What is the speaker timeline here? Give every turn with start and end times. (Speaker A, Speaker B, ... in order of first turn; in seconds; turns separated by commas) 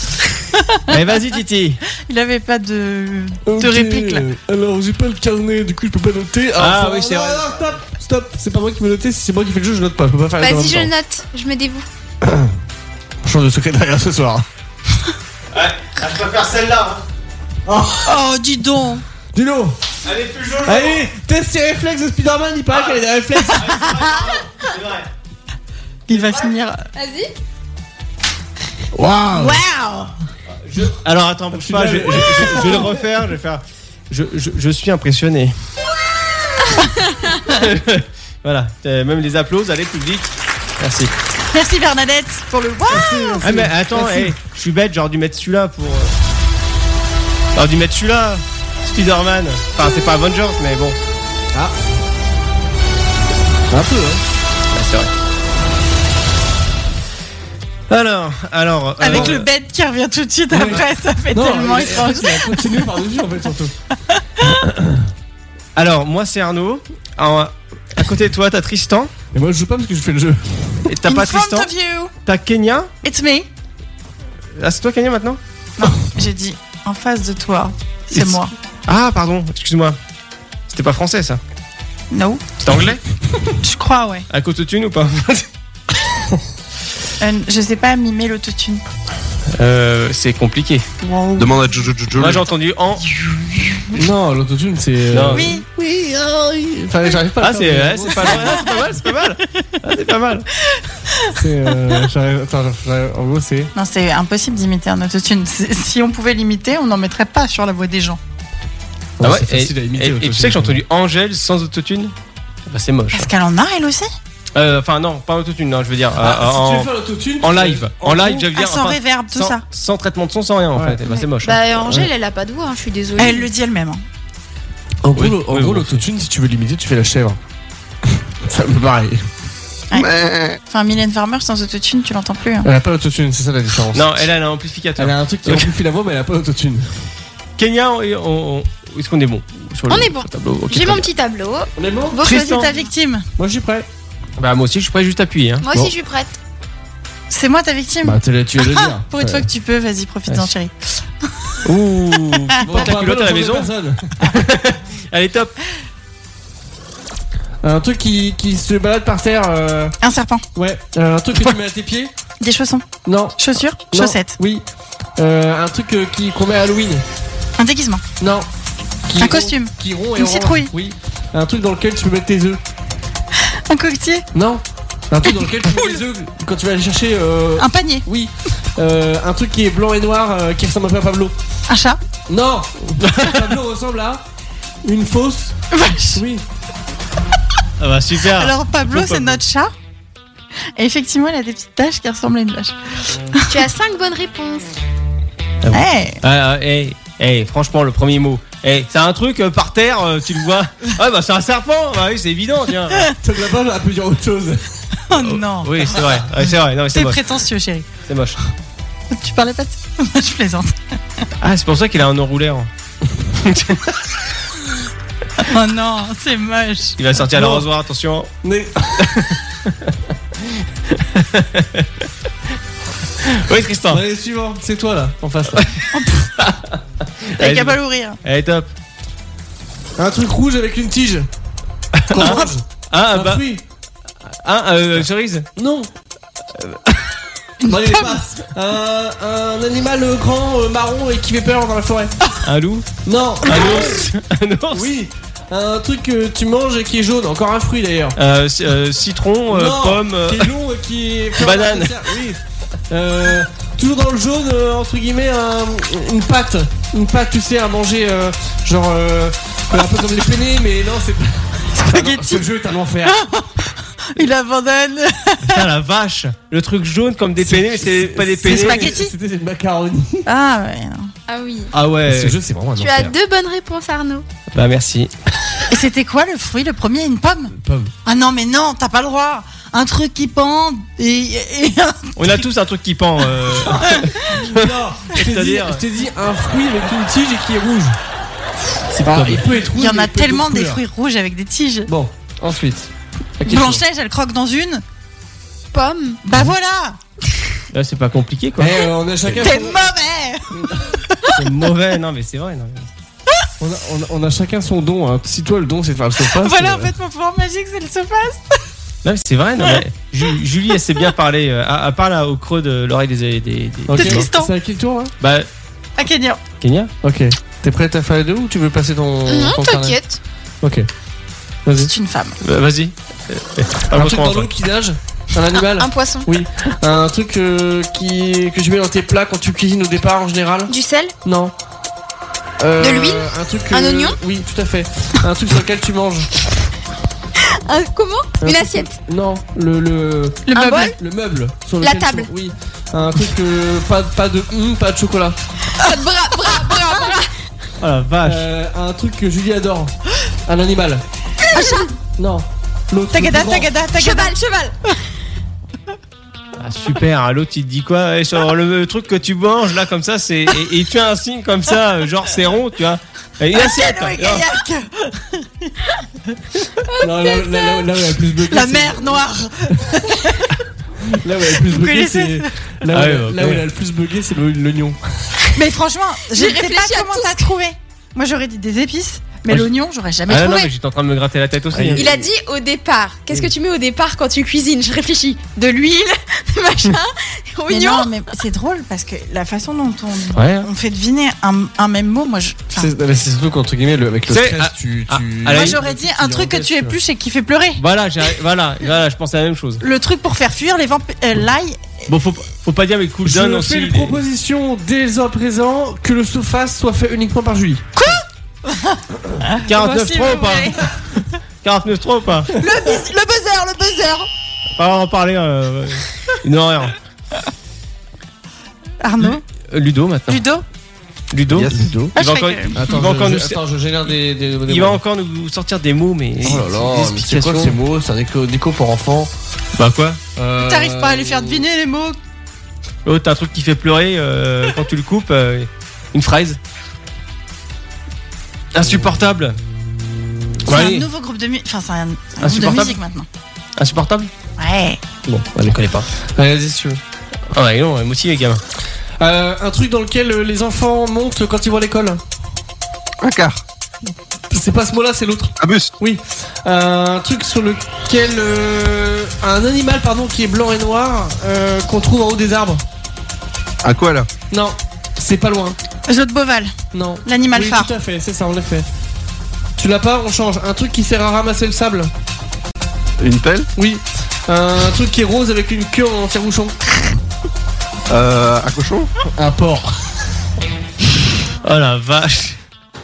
Speaker A: 0.5-0.9, Speaker B: 0.9-1.8, Speaker A: 2.0-4.2, Speaker C: 3.5-10.9, Speaker B: 6.6-7.6, Speaker D: 10.4-11.9, Speaker C: 12.2-12.5, Speaker C: 13.2-14.4, Speaker B: 15.5-17.0, Speaker C: 17.6-18.1, Speaker A: 18.0-19.0, Speaker C: 19.3-19.8, Speaker B: 20.0-21.0, Speaker C: 20.6-23.7, Speaker B: 22.7-23.0, Speaker A: 23.5-24.2, Speaker B: 23.5-25.1, Speaker A: 26.1-26.9, Speaker B: 26.1-26.4, Speaker D: 26.9-27.3, Speaker C: 28.9-29.6, Speaker A: 29.3-30.1, Speaker B: 30.6-35.5, Speaker C: 31.5-33.0, Speaker B: 37.5-41.1, Speaker A: 41.5-43.5, Speaker C: 42.9-44.3, Speaker B: 43.4-46.1, Speaker B: 47.5-51.0, Speaker C: 53.7-54.2, Speaker B: 54.7-55.1, Speaker B: 57.9-59.4, Speaker A: 59.0-62.9, Speaker C: 59.1-59.4, Speaker C: 60.5-63.7, Speaker A: 64.1-64.6, Speaker B: 65.8-69.1, Speaker C: 69.3-70.9, Speaker B: 70.9-71.7, Speaker A: 71.0-72.1, Speaker B: 72.2-72.9, Speaker A: 73.0-73.5, Speaker B: 74.5-75.4, Speaker A: 75.8-78.5, Speaker B: 78.1-80.0, Speaker B: 80.7-81.4, Speaker A: 82.1-82.4, Speaker B: 82.6-83.0, Speaker A: 83.6-84.3, Speaker B: 84.3-85.5, Speaker A: 87.2-88.8, Speaker B: 89.5-90.9, Speaker C: 91.0-91.5, Speaker E: 91.4-92.4, Speaker B: 92.2-93.0, Speaker A: 93.1-94.0, Speaker C: 93.9-98.7, Speaker B: 95.1-95.5, Speaker A: 95.3-95.6, Speaker B: 97.4-100.5, Speaker A: 98.3-98.5, Speaker A: 100.8-101.3, Speaker C: 101.3-103.7, Speaker A: 103.7-108.2, Speaker C: 109.2-110.8, Speaker B: 109.2-112.1, Speaker B: 112.7-113.3, Speaker A: 113.1-114.1, Speaker B: 114.5-121.6, Speaker C: 116.2-118.4, Speaker A: 118.4-119.6, Speaker C: 120.7-121.0, Speaker D: 121.1-123.5, Speaker C: 121.7-122.1, Speaker A: 123.2-124.0, Speaker C: 125.0-127.4, Speaker B: 125.1-126.0, Speaker C: 128.4-129.2, Speaker E: 129.9-130.6, Speaker A: 130.7-132.7, Speaker C: 132.6-134.2, Speaker B: 133.9-135.7, Speaker C: 135.0-136.9, Speaker B: 137.6-141.1, Speaker D: 139.9-142.8, Speaker C: 141.8-142.2, Speaker A: 142.2-143.2, Speaker B: 142.2-142.7, Speaker C: 143.4-143.9, Speaker B: 144.4-145.7, Speaker D: 145.6-146.3, Speaker A: 147.3-151.6, Speaker C: 148.0-149.5, Speaker B: 151.6-153.7, Speaker C: 152.6-154.2, Speaker B: 154.2-155.6, Speaker C: 157.6-159.9, Speaker A: 160.0-160.4, Speaker C: 160.5-162.1, Speaker A: 162.4-162.8, Speaker C: 163.0-163.4, Speaker A: 163.4-164.4, Speaker C: 163.9-164.6, Speaker C: 165.2-167.0, Speaker A: 167.6-168.0, Speaker C: 168.2-168.5, Speaker C: 169.1-172.6, Speaker A: 169.2-170.7, Speaker A: 173.7-174.2, Speaker C: 174.3-181.3, Speaker A: 177.6-178.1, Speaker A: 181.7-182.0, Speaker C: 182.3-184.2, Speaker C: 184.8-185.6, Speaker A: 185.7-186.2, Speaker C: 186.1-186.4, Speaker B: 187.8-189.4, Speaker A: 188.3-189.7, Speaker A: 190.8-192.7, Speaker D: 193.5-194.7, Speaker B: 195.6-203.1, Speaker A: 195.7-196.2, Speaker C: 203.2-204.8, Speaker A: 205.1-206.2, Speaker B: 205.2-207.2, Speaker A: 206.9-207.9, Speaker B: 208.1-208.4, Speaker A: 209.1-210.8, Speaker B: 211.4-212.7, Speaker B: 213.3-213.8, Speaker A: 215.4-217.0, Speaker B: 217.0-218.3, Speaker C: 217.3-217.7, Speaker C: 218.4-219.3, Speaker B: 219.0-219.9, Speaker B: 220.9-221.9, Speaker B: 223.2-224.0, Speaker C: 223.9-225.7, Speaker A: 225.9-226.3, Speaker B: 226.4-226.8, Speaker B: 227.3-228.7, Speaker A: 227.4-228.2, Speaker C: 230.0-231.3, Speaker B: 232.0-233.4, Speaker C: 232.1-233.6, Speaker B: 234.4-235.5, Speaker C: 235.6-235.9, Speaker B: 236.6-237.0, Speaker A: 237.6-238.2, Speaker C: 237.6-242.1, Speaker B: 242.4-244.9, Speaker C: 243.0-244.1, Speaker C: 244.7-248.2, Speaker B: 248.2-250.5, Speaker C: 249.5-252.4, Speaker B: 251.4-252.1, Speaker C: 252.9-263.2, Speaker A: 261.7-262.4, Speaker A: 263.0-265.6, Speaker B: 265.4-268.9, Speaker C: 267.4-270.3, Speaker A: 268.4-269.1, Speaker A: 270.2-271.1, Speaker D: 271.3-271.7, Speaker B: 271.7-272.4, Speaker C: 272.1-273.1, Speaker D: 272.8-274.2, Speaker B: 274.5-275.1, Speaker A: 275.7-277.5, Speaker C: 277.5-277.9, Speaker A: 278.0-282.4, Speaker B: 282.2-285.8, Speaker A: 283.6-284.1, Speaker C: 283.9-288.0, Speaker B: 288.9-289.4, Speaker C: 289.0-290.8, Speaker A: 289.7-291.9, Speaker C: 291.9-293.8, Speaker A: 293.4-294.8, Speaker D: 295.7-296.2, Speaker A: 296.2-297.0, Speaker B: 297.7-298.8, Speaker C: 298.6-299.8, Speaker A: 299.4-301.4, Speaker C: 300.5-300.9, Speaker B: 301.4-302.9, Speaker C: 303.6-306.9, Speaker A: 306.2-308.6, Speaker B: 309.0-314.3, Speaker C: 313.9-315.1, Speaker A: 313.9-314.5, Speaker B: 315.2-315.5, Speaker A: 316.0-316.4, Speaker B: 316.6-316.9, Speaker C: 317.0-320.0, Speaker D: 319.2-320.2, Speaker C: 320.6-320.9, Speaker C: 321.6-321.9, Speaker A: 321.8-322.4, Speaker B: 322.4-324.5, Speaker C: 323.9-330.7, Speaker D: 325.7-326.3, Speaker D: 330.7-331.1, Speaker C: 331.2-331.5, Speaker C: 332.6-336.3, Speaker D: 332.8-334.2, Speaker D: 337.4-339.0, Speaker C: 338.4-345.4, Speaker A: 340.5-340.9, Speaker D: 340.5-340.9, Speaker D: 341.8-342.3, Speaker D: 345.7-347.3, Speaker B: 347.8-348.5, Speaker C: 348.2-349.9, Speaker C: 350.4-351.0, Speaker D: 351.5-351.9, Speaker C: 352.2-353.7, Speaker A: 353.1-354.4, Speaker D: 353.9-354.8, Speaker B: 356.6-364.4, Speaker A: 363.5-365.8, Speaker D: 366.9-367.9, Speaker C: 367.0-369.2, Speaker A: 368.4-370.6, Speaker C: 371.0-375.4, Speaker A: 371.6-372.5, Speaker B: 372.9-373.6, Speaker A: 375.5-380.7, Speaker D: 376.3-377.5, Speaker B: 380.3-382.1, Speaker C: 381.7-382.3, Speaker D: 382.0-385.5, Speaker A: 385.6-386.1, Speaker D: 386.4-388.1, Speaker A: 387.7-392.9, Speaker B: 390.3-390.7, Speaker C: 392.7-397.0, Speaker B: 394.3-395.8, Speaker A: 395.5-397.8, Speaker B: 397.8-399.8, Speaker A: 399.8-402.0, Speaker B: 402.1-404.2, Speaker C: 403.2-407.9, Speaker A: 408.0-410.9, Speaker B: 409.6-410.9, Speaker B: 411.6-412.5, Speaker A: 412.5-414.3, Speaker B: 414.8-416.9, Speaker A: 419.0-419.4, Speaker B: 419.2-420.4, Speaker A: 420.3-420.6, Speaker B: 421.3-424.1, Speaker E: 421.5-421.8, Speaker C: 421.6-422.1, Speaker A: 422.1-422.8, Speaker C: 422.7-425.0, Speaker B: 424.7-427.8, Speaker C: 426.4-429.3, Speaker B: 429.8-430.2, Speaker C: 430.4-431.6, Speaker A: 430.6-432.2, Speaker B: 433.1-436.6, Speaker B: 438.7-439.6, Speaker C: 438.8-440.5, Speaker B: 440.6-441.1, Speaker A: 440.7-443.3, Speaker B: 442.4-443.0, Speaker B: 443.8-444.3, Speaker A: 444.6-445.0, Speaker C: 445.2-447.0, Speaker B: 445.6-446.1, Speaker B: 447.5-448.6, Speaker C: 449.2-452.2, Speaker E: 453.2-453.6, Speaker C: 454.5-462.8, Speaker E: 455.6-455.9, Speaker E: 463.8-464.3, Speaker C: 464.5-465.8, Speaker A: 466.1-466.7, Speaker C: 466.9-468.9, Speaker A: 467.2-467.9, Speaker C: 469.8-472.1, Speaker E: 473.2-473.7, Speaker C: 473.8-476.9, Speaker E: 478.1-479.1, Speaker C: 479.3-479.9, Speaker B: 481.6-482.6